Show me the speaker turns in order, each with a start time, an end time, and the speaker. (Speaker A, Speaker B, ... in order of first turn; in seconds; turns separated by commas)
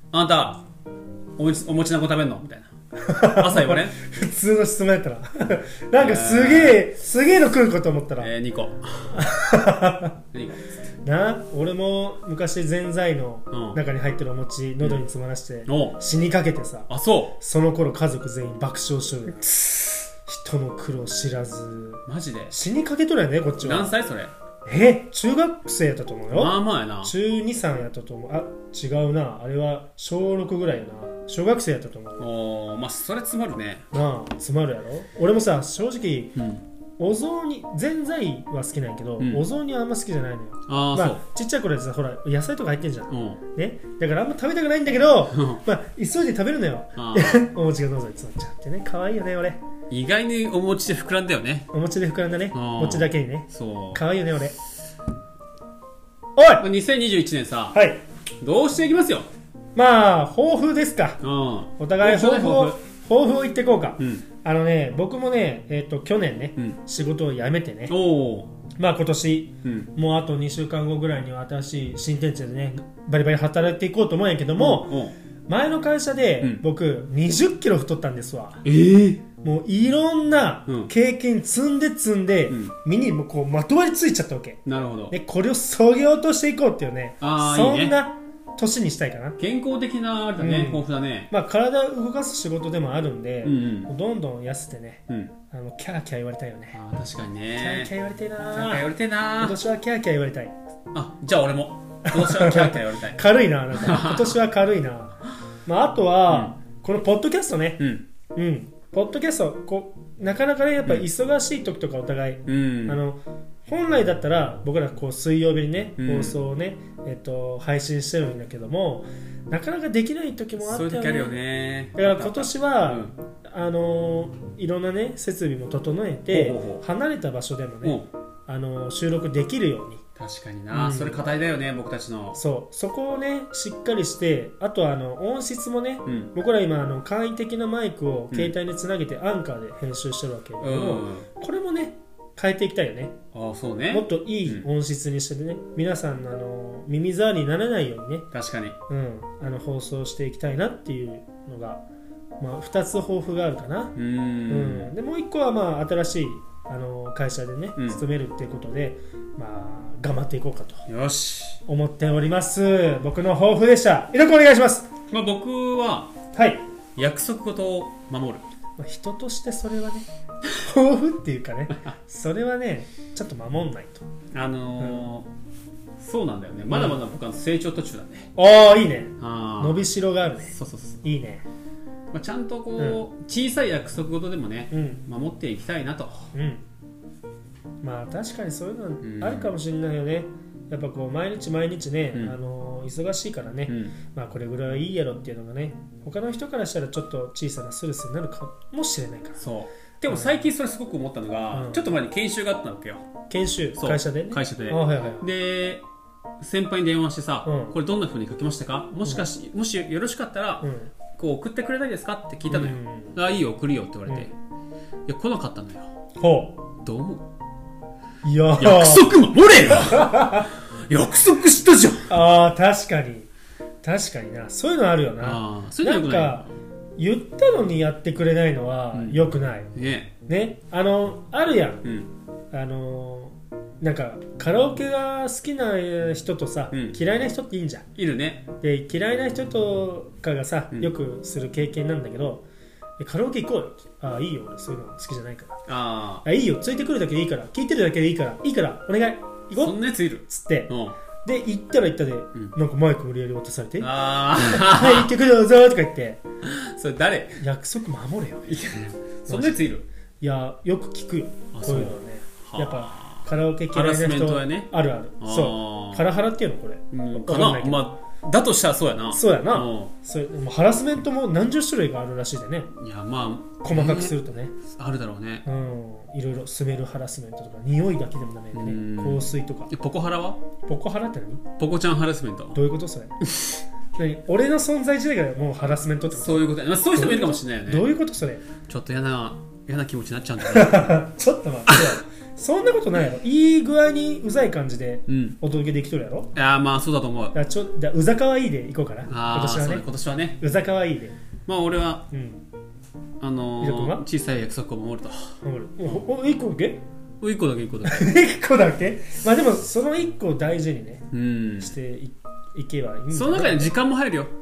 Speaker A: 0.1-0.6, Speaker A: 1.4-2.7, Speaker B: 3.0-8.3, Speaker A: 3.2-4.0, Speaker A: 6.0-6.8, Speaker A: 8.2-9.2, Speaker B: 9.1-10.2, Speaker A: 10.3-10.6, Speaker B: 11.0-19.5, Speaker A: 13.5-13.8, Speaker A: 15.7-16.0, Speaker A: 16.9-17.4, Speaker A: 19.5-19.9, Speaker B: 20.2-23.9, Speaker A: 22.1-22.6, Speaker A: 23.6-24.3, Speaker B: 24.6-32.3, Speaker A: 26.3-27.1, Speaker A: 32.2-33.9, Speaker B: 33.9-36.4, Speaker A: 36.4-36.6, Speaker B: 37.0-49.6, Speaker A: 39.2-39.4, Speaker A: 40.7-41.2, Speaker A: 43.1-43.4, Speaker A: 45.3-45.6, Speaker A: 47.0-47.5, Speaker A: 49.9-51.7, Speaker B: 51.7-54.5, Speaker A: 52.5-54.0, Speaker B: 56.4-56.6, Speaker A: 56.6-57.8, Speaker B: 57.7-58.0, Speaker A: 58.4-59.3, Speaker B: 59.7-61.2, Speaker A: 61.2-62.8, Speaker B: 61.8-67.9, Speaker A: 64.0-64.2, Speaker A: 67.9-68.5, Speaker B: 68.8-78.6, Speaker A: 69.6-69.9, Speaker A: 74.6-75.1, Speaker A: 78.6-79.2, Speaker B: 79.4-89.4, Speaker A: 84.7-85.1, Speaker A: 87.2-88.0, Speaker A: 89.4-91.3, Speaker B: 90.4-96.8, Speaker A: 93.4-93.9, Speaker A: 96.7-99.6, Speaker B: 97.5-100.5, Speaker A: 100.9-103.2, Speaker B: 102.1-107.8, Speaker A: 103.7-104.4, Speaker A: 107.8-108.0, Speaker B: 108.3-121.4, Speaker A: 112.5-113.0, Speaker A: 116.0-116.3, Speaker A: 120.6-123.1, Speaker B: 122.0-130.0, Speaker A: 126.3-126.8, Speaker A: 127.8-128.1, Speaker A: 130.2-132.4, Speaker B: 130.7-131.3, Speaker B: 132.3-143.2, Speaker A: 140.6-141.2, Speaker A: 143.3-144.7, Speaker B: 143.9-148.3, Speaker A: 148.3-148.8, Speaker B: 148.9-151.8, Speaker B: 152.4-153.9, Speaker A: 153.9-154.9, Speaker B: 154.5-160.9, Speaker A: 157.8-158.0, Speaker A: 160.9-161.6, Speaker B: 161.7-164.9, Speaker A: 165.1-166.1, Speaker B: 166.3-166.6, Speaker A: 166.9-168.4, Speaker B: 168.8-170.1, Speaker B: 170.6-174.0, Speaker A: 174.3-175.3, Speaker B: 174.8-175.1, Speaker A: 176.0-178.3, Speaker B: 176.7-177.0, Speaker B: 178.3-181.4, Speaker A: 179.2-179.9, Speaker A: 180.5-181.0, Speaker A: 182.1-186.3, Speaker B: 182.8-183.0, Speaker B: 184.7-185.0, Speaker B: 186.3-186.6, Speaker B: 187.8-199.4, Speaker A: 189.0-189.5, Speaker A: 193.7-193.9, Speaker A: 199.4-203.1, Speaker B: 200.1-200.3, Speaker B: 201.5-201.9, Speaker B: 203.3-205.3, Speaker A: 203.7-205.8, Speaker A: 206.4-214.3, Speaker B: 207.4-207.8, Speaker B: 210.6-210.9, Speaker B: 212.5-213.2, Speaker A: 215.1-215.9, Speaker B: 216.2-216.6, Speaker A: 216.8-217.2, Speaker B: 218.2-220.5, Speaker A: 218.6-222.1, Speaker B: 222.1-223.3, Speaker B: 223.8-229.7, Speaker A: 225.2-226.5, Speaker A: 228.9-230.1, Speaker B: 230.3-231.9, Speaker A: 231.8-232.1, Speaker B: 232.5-237.9, Speaker A: 236.7-237.0, Speaker A: 237.9-238.4, Speaker B: 238.6-242.4, Speaker B: 243.0-245.6, Speaker A: 245.7-246.2, Speaker B: 246.2-256.2, Speaker A: 249.5-250.9, Speaker A: 253.8-255.1, Speaker A: 256.4-257.4, Speaker B: 257.4-258.6, Speaker A: 258.4-259.8, Speaker B: 259.3-259.7, Speaker B: 260.2-267.9, Speaker A: 261.5-264.7, Speaker A: 265.2-266.1, Speaker A: 266.9-269.9, Speaker B: 269.1-272.7, Speaker A: 272.7-275.5, Speaker B: 273.6-274.5, Speaker B: 275.4-279.7, Speaker A: 278.5-280.4, Speaker B: 280.6-281.4, Speaker A: 281.6-282.6, Speaker B: 282.5-283.1, Speaker B: 283.9-288.4, Speaker A: 286.1-287.9, Speaker A: 288.6-291.0, Speaker B: 290.5-296.3, Speaker A: 291.7-291.9, Speaker A: 295.1-295.4, Speaker A: 296.3-297.3, Speaker B: 297.3-299.8, Speaker A: 299.1-300.4, Speaker B: 300.4-301.1, Speaker A: 301.5-302.1, Speaker B: 302.1-302.4, Speaker A: 303.2-306.0, Speaker B: 303.6-304.0, Speaker B: 305.4-306.8, Speaker A: 307.2-308.0, Speaker B: 307.8-311.1, Speaker A: 311.1-311.8, Speaker B: 311.6-313.7, Speaker A: 313.1-314.3